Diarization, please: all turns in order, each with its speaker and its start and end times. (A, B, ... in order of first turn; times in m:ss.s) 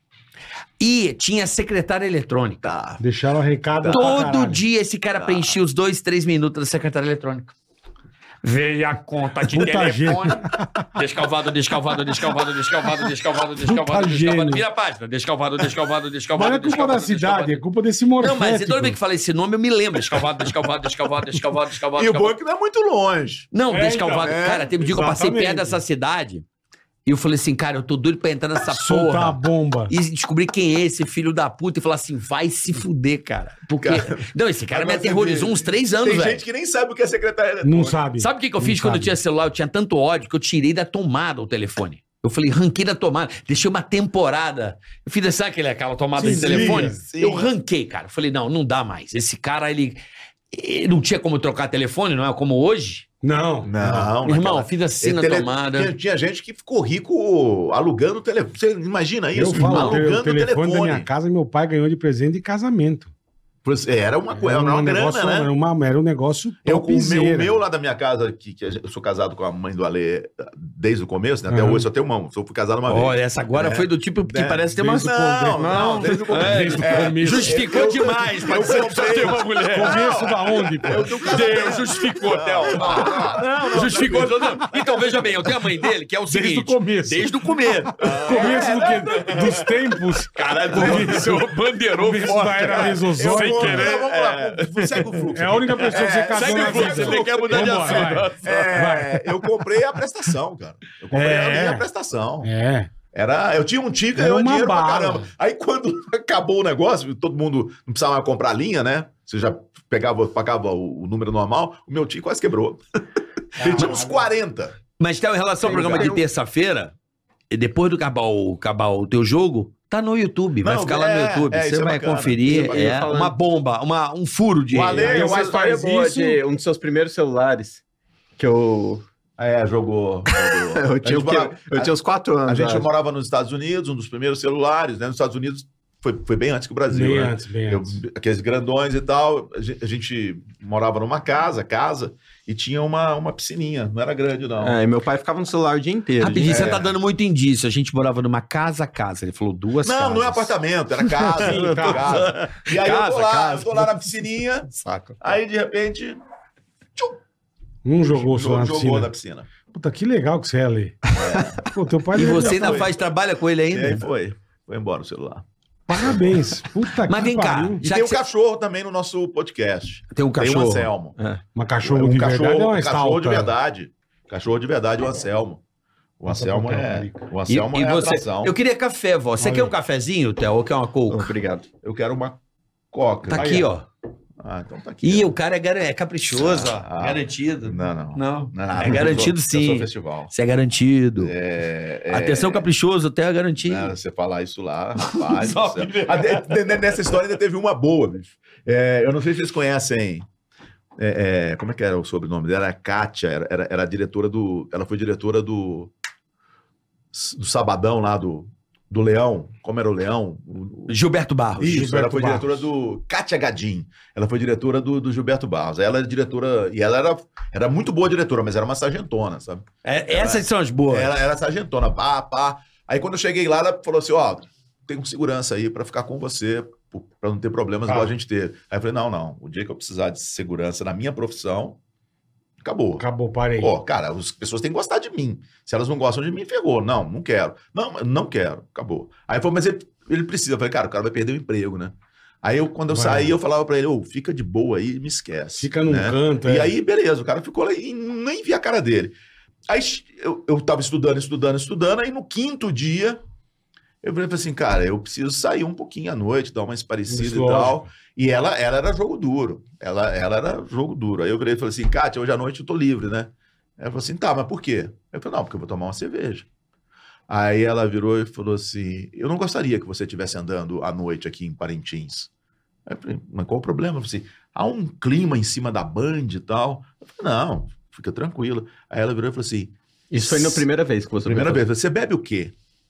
0:00.8-0:02.7 A
0:02.6-0:03.0 B
0:03.0-0:04.6 C
0:03.8-0:04.4 B
0:03.9-0:07.6 A
0:05.2-0:05.6 B
0:08.4-0:10.4 A
0:09.5-0:10.9 C
0:11.0-0:17.6 A
0:13.6-0:14.6 C
0:16.4-0:19.0 C
0:18.2-0:22.3 A
0:22.0-0:23.5 B
0:23.5-0:26.4 A
0:23.7-0:25.8 C
0:24.2-0:24.8 B
0:27.0-0:36.4 A
0:28.7-0:29.9 C
0:33.8-0:38.0 B
0:37.6-0:39.2 C
0:38.2-0:50.0 A
0:46.2-0:47.0 C
0:46.2-0:47.5 B
0:50.5-0:53.1 A
0:53.2-0:54.1 C
0:53.6-1:01.1 B
0:54.2-0:55.9 A
0:59.3-1:03.1 C
0:59.6-1:00.0 A
1:03.6-1:05.5 B
1:04.4-1:07.6 C
1:06.6-1:25.5 B
1:11.5-1:11.9 C
1:12.9-1:15.2 A
1:14.8-1:17.8 C
1:15.6-1:16.3 D
1:16.3-1:20.2 A
1:19.7-1:21.4 C
1:20.8-1:28.6 A
1:23.4-1:24.3 D
1:26.3-1:27.3 C
1:28.0-1:31.4 B
1:28.0-1:34.0 C
1:29.2-1:29.6 A
1:30.2-1:35.0 A
1:32.6-1:42.5 B
1:35.3-1:39.4 C
1:35.9-1:38.9 A
1:41.1-1:41.9 C
1:42.4-1:42.9 C
1:43.1-1:52.8 B
1:44.2-1:45.3 C
1:53.6-1:54.3 C
1:53.6-1:54.8 B
1:55.0-1:57.0 A
1:55.6-1:56.2 D
1:55.8-1:56.1 B
1:57.5-2:05.1 A
2:00.6-2:03.0 B
2:02.4-2:03.4 D
2:04.7-2:05.8 B
2:04.8-2:07.8 D
2:05.0-2:06.4 C
2:08.4-2:09.0 D
2:09.4-2:24.8 B
2:10.3-2:12.9 D
2:16.9-2:18.0 C
2:24.6-2:26.8 D
2:26.2-2:31.4 A
2:26.4-2:27.0 B
2:29.8-2:34.7 B
2:31.4-2:32.3 C
2:31.5-2:32.3 D
2:32.0-2:34.0 A
2:34.7-2:35.2 D
2:35.2-2:36.2 B
2:37.8-2:39.1 C
2:38.1-2:39.5 B
2:39.7-2:41.0 C
2:41.1-2:43.1 B
2:41.2-2:41.4 D
2:41.6-2:42.9 C
2:42.1-2:44.1 A
2:43.7-2:46.5 B
2:45.9-2:47.8 C
2:46.9-2:48.2 A
2:47.8-2:51.2 B
2:50.1-2:50.9 A
2:51.6-2:53.5 C
2:51.8-2:55.6 B
2:56.2-2:58.6 B
2:56.3-2:57.3 C
2:57.5-3:01.4 A
2:59.4-2:59.7 C
3:01.1-3:01.7 D
3:01.8-3:02.4 B
3:02.9-3:03.7 B
3:03.2-3:03.9 A
3:03.4-3:03.6 C
3:04.4-3:05.4 B
3:05.0-3:11.3 A
3:06.3-3:10.3 B
3:11.2-3:12.7 B
3:12.1-3:13.9 A
3:13.6-3:20.3 B
3:15.0-3:17.2 A
3:21.0-3:25.9 B
3:27.1-3:31.0 B
3:30.9-3:31.9 A
3:31.6-3:51.8 B
3:31.6-3:32.7 C
3:39.8-3:41.2 A
3:47.9-3:48.1 C
3:52.6-3:53.0 B
3:53.0-3:53.8 C
3:53.6-4:09.2 B
4:02.9-4:03.4 C
4:05.6-4:06.8 C
4:09.7-4:13.2 B
4:14.0-4:26.5 B
4:17.1-4:17.9 C
4:27.3-4:32.3 B
4:32.9-4:40.7 B
4:40.1-4:41.6 D
4:41.2-4:42.6 B